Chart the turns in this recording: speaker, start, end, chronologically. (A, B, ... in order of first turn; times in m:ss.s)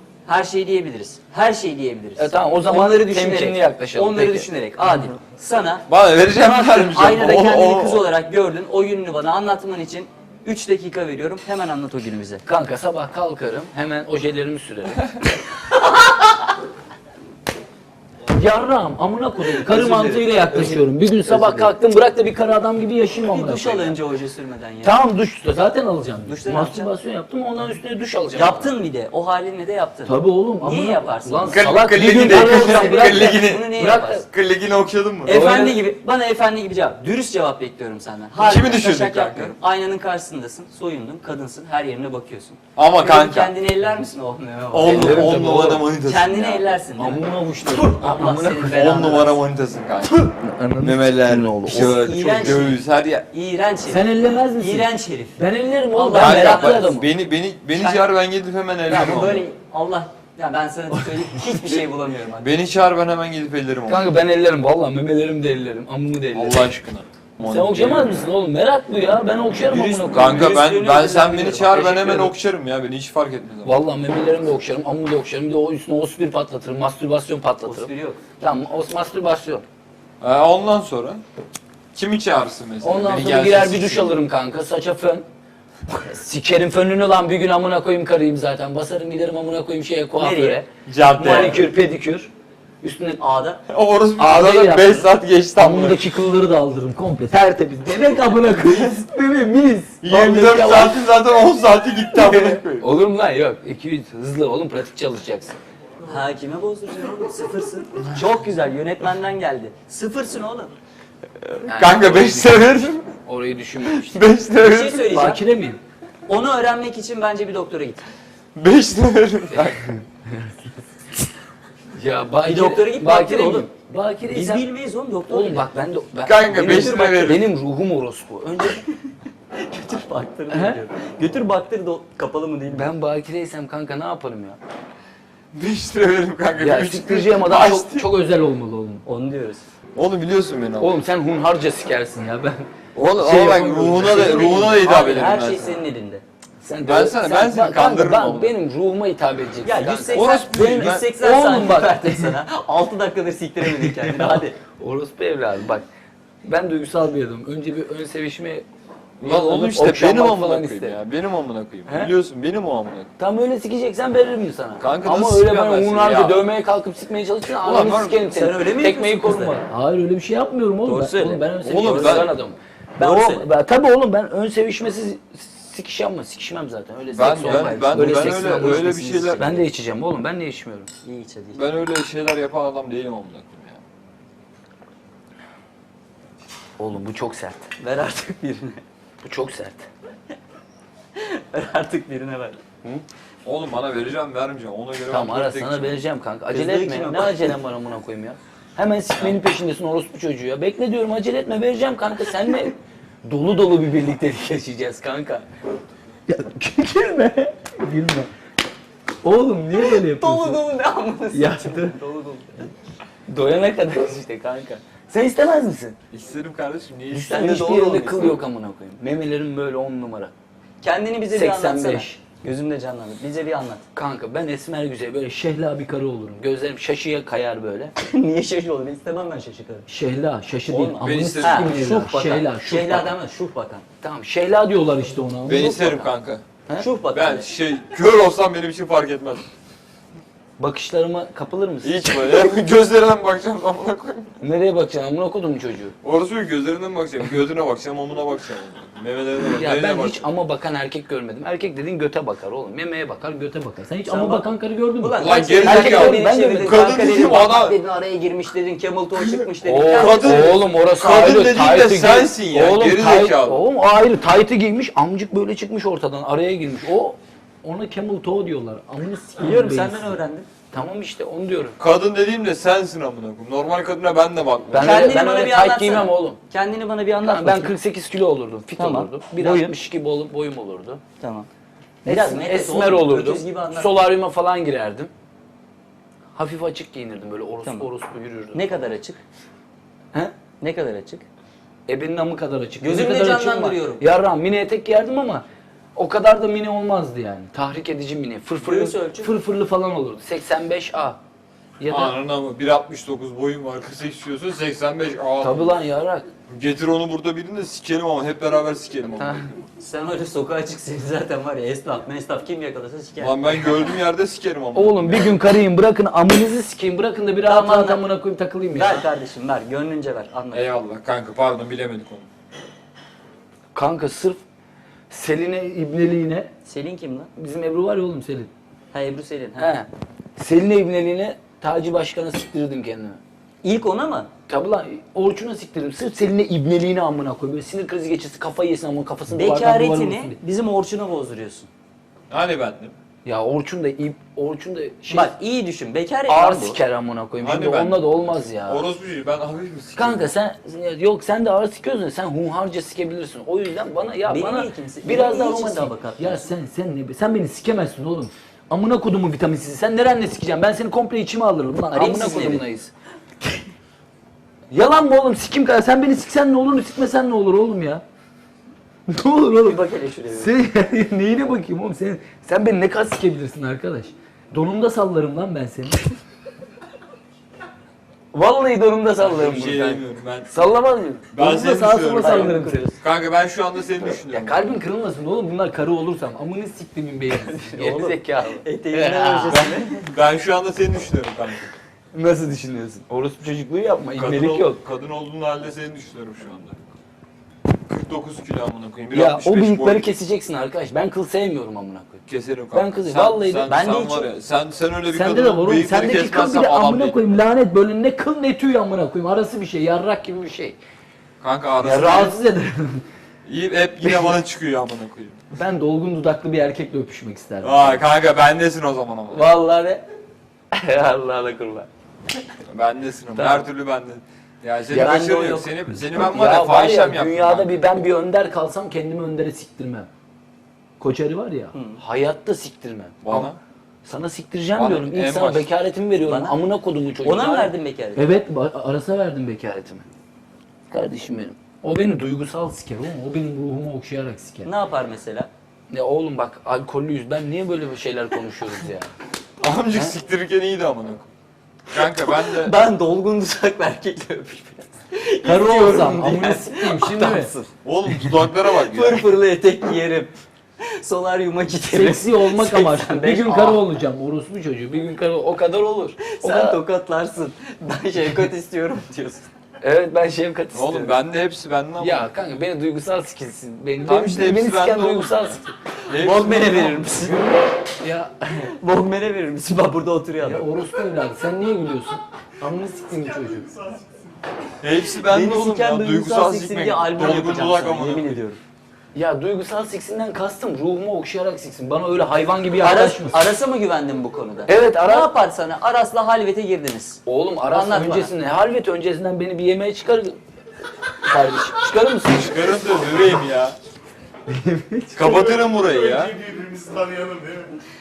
0:00.3-0:12.4 A
0:02.2-0:04.5 B
0:05.9-0:08.0 C
0:12.5-0:15.0 B
0:18.3-0:24.0 B
0:19.6-0:21.7 A
0:23.3-0:25.0 A
0:24.8-0:28.7 B
0:26.3-0:26.9 A
0:28.3-0:34.3 A
0:30.1-0:34.2 B
0:31.5-0:35.4 C
0:35.3-0:45.4 A
0:35.3-0:35.9 B
0:38.4-0:39.5 C
0:42.8-0:43.5 C
0:44.7-0:46.8 C
0:44.9-0:45.9 B
0:46.0-0:49.4 A
0:47.0-0:49.2 B
0:48.7-0:53.3 C
0:50.1-0:52.6 B
0:52.0-0:54.0 A
0:53.9-0:57.1 B
0:54.6-0:55.4 A
0:55.9-0:56.9 A
0:56.2-0:59.4 C
0:57.8-0:58.0 A
0:58.9-1:02.5 A
1:02.4-1:04.1 C
1:03.9-1:06.7 B
1:06.4-1:08.1 C
1:07.4-1:10.6 B
1:09.6-1:12.3 A
1:10.0-1:13.8 C
1:13.6-1:19.6 B
1:17.6-1:18.2 A
1:20.2-1:21.2 C
1:21.9-1:24.2 C
1:22.8-1:25.3 B
1:26.0-1:32.3 B
1:30.2-1:30.6 A
1:30.9-1:31.6 C
1:31.2-1:31.6 A
1:32.8-1:33.2 B
1:33.2-1:33.6 A
1:33.7-1:36.0 C
1:34.2-1:41.0 B
1:40.0-1:42.9 C
1:42.1-1:45.6 B
1:46.0-1:50.7 A
1:51.4-1:53.1 C
1:51.6-1:54.2 B
1:53.9-1:55.1 C
1:54.6-1:55.4 A
1:55.1-1:55.8 B
1:56.3-1:58.1 A
1:58.6-1:59.9 C
1:59.5-2:00.6 B
2:01.9-2:04.7 B
2:02.4-2:03.7 A
2:04.3-2:05.7 A
2:05.3-2:08.8 B
2:06.2-2:07.5 C
2:06.6-2:07.4 A
2:09.6-2:12.9 A
2:10.5-2:10.8 B
2:12.7-2:14.6 B
2:15.5-2:18.1 C
2:16.6-2:19.0 B
2:19.0-2:19.7 A
2:20.0-2:21.0 C
2:20.8-2:24.9 B
2:23.0-2:25.8 C
2:24.1-2:26.2 A
2:26.6-2:32.4 B
2:26.8-2:28.6 C
2:29.6-2:34.6 A
2:30.1-2:31.0 C
2:33.8-2:35.8 B
2:36.4-2:38.7 B
2:39.2-2:41.0 B
2:39.2-2:43.1 C
2:41.9-2:42.1 B
2:43.2-3:00.9 B
2:44.8-2:46.4 C
2:47.7-2:49.6 A
2:50.8-2:52.3 A
2:51.6-2:52.3 C
2:53.0-2:53.5 A
2:57.1-2:59.6 C
2:57.2-2:59.6 A
3:01.0-3:01.6 A
3:01.6-3:03.8 C
3:06.8-3:07.7 B
3:07.8-3:08.8 A
3:09.2-3:09.9 B
3:11.2-3:12.6 A
3:13.4-3:16.0 C
3:15.1-3:25.5 B
3:16.5-3:17.6 A
3:26.3-3:28.3 B
3:29.2-3:30.6 B
3:29.8-3:32.7 A
3:31.3-3:32.0 B
3:33.3-3:36.0 B
3:36.1-3:38.3 C
3:37.1-3:40.3 B
3:40.8-3:43.8 A
3:41.3-3:42.2 B
3:44.0-3:47.9 B
3:48.0-3:49.9 A
3:49.9-3:53.1 B
3:50.7-3:53.8 A
3:51.0-3:51.8 C
3:54.0-3:56.1 B
3:55.5-3:56.4 C
3:56.8-3:57.5 A
3:57.1-3:59.5 C
4:00.6-4:02.5 B
4:01.8-4:04.3 C
4:04.4-4:05.9 B
4:06.0-4:10.2 C
4:09.5-4:16.8 B
4:14.1-4:14.5 A
4:15.0-4:20.5 A
4:15.2-4:17.8 C
4:19.6-4:30.2 B
4:19.9-4:23.6 C
4:29.4-4:30.5 A
4:30.7-4:31.8 B
4:31.8-4:35.1 C
4:34.7-4:36.4 B
4:34.8-4:37.7 A
4:37.2-4:41.0 B
4:38.8-4:39.7 A
4:41.2-4:41.5 A
4:42.0-4:44.0 A
4:42.0-4:45.1 B
4:46.4-4:48.7 B
4:48.5-4:49.2 A
4:50.6-4:51.3 A
4:51.9-5:01.2 B
4:52.8-4:54.1 A
4:58.6-4:59.4 A
5:01.8-5:02.2 B
5:01.9-5:05.7 C
5:05.4-5:06.3 B
5:06.5-5:09.7 C
5:09.2-5:09.5 B
5:09.8-5:13.9 A
5:13.2-5:15.3 C
5:14.8-5:19.1 B
5:17.4-5:18.0 A
5:18.7-5:20.6 A
5:20.5-5:22.3 C
5:23.7-5:24.4 B
5:25.1-5:26.5 B
5:26.6-5:27.3 A
5:27.4-5:28.5 B
5:28.9-5:29.7 A
5:29.6-5:33.2 B
5:33.6-5:34.3 A
5:34.5-5:40.4 B
5:39.3-5:41.7 A
5:42.3-5:42.9 C
5:43.2-5:45.3 B
5:45.1-5:46.8 A
5:46.3-5:48.8 B
5:47.4-5:50.3 C
5:50.0-6:02.9 B
5:54.3-5:56.5 A
6:01.9-6:02.6 A
6:04.7-6:08.0 B
6:09.1-6:09.8 B
6:09.6-6:10.5 A
6:10.3-6:16.1 B
6:18.3-6:22.8 B
6:19.2-6:20.5 C
6:21.3-6:24.7 C
6:22.2-6:23.0 A
6:24.2-6:29.7 B
6:27.6-6:30.1 A
6:29.5-6:31.7 C
6:32.1-6:34.8 B
6:34.2-6:36.8 C
6:37.9-6:40.1 C
6:39.1-6:42.2 B
6:42.3-6:47.2 C
6:42.7-6:43.7 B
6:43.7-6:44.3 A
6:45.1-6:50.8 B
6:51.4-6:52.4 C
6:51.8-6:53.0 B
6:53.5-6:55.5 C
6:54.0-6:54.3 B
6:55.6-6:58.0 B
6:57.6-6:59.5 C
6:59.3-7:00.1 B
7:00.7-7:01.9 B
7:02.7-7:07.8 C
7:03.4-7:03.7 B
7:04.9-7:06.0 A
7:06.1-7:10.1 B
7:11.0-7:13.5 B
7:11.7-7:12.0 A
7:13.2-7:13.6 C
7:14.0-7:20.0 B
7:14.8-7:15.7 C
7:16.2-7:16.6 A
7:17.2-7:18.3 A
7:20.9-7:24.7 B
7:24.6-7:25.5 A
7:25.9-7:29.1 B
7:29.6-7:31.3 C
7:31.9-7:32.7 C
7:32.3-7:37.7 A
7:35.4-7:37.5 B
7:37.8-7:39.3 C
7:38.7-7:43.8 A
7:41.9-7:46.8 B
7:46.2-7:49.5 A
7:49.8-7:51.2 B
7:50.7-7:52.3 C
7:52.0-7:55.7 B
7:54.0-7:55.6 C
7:56.1-7:57.0 C
7:56.1-7:57.4 A
7:57.2-7:58.7 B
7:58.8-8:00.7 A
8:00.4-8:03.7 B
8:03.5-8:04.0 D
8:04.8-8:08.4 C
8:05.2-8:08.6 A
8:09.1-8:13.4 B
8:12.8-8:18.3 A
8:14.7-8:15.3 B
8:17.3-8:20.4 B
8:21.2-8:22.6 B
8:22.3-8:23.8 C
8:24.5-8:25.4 B
8:25.2-8:26.4 C
8:25.3-8:27.8 D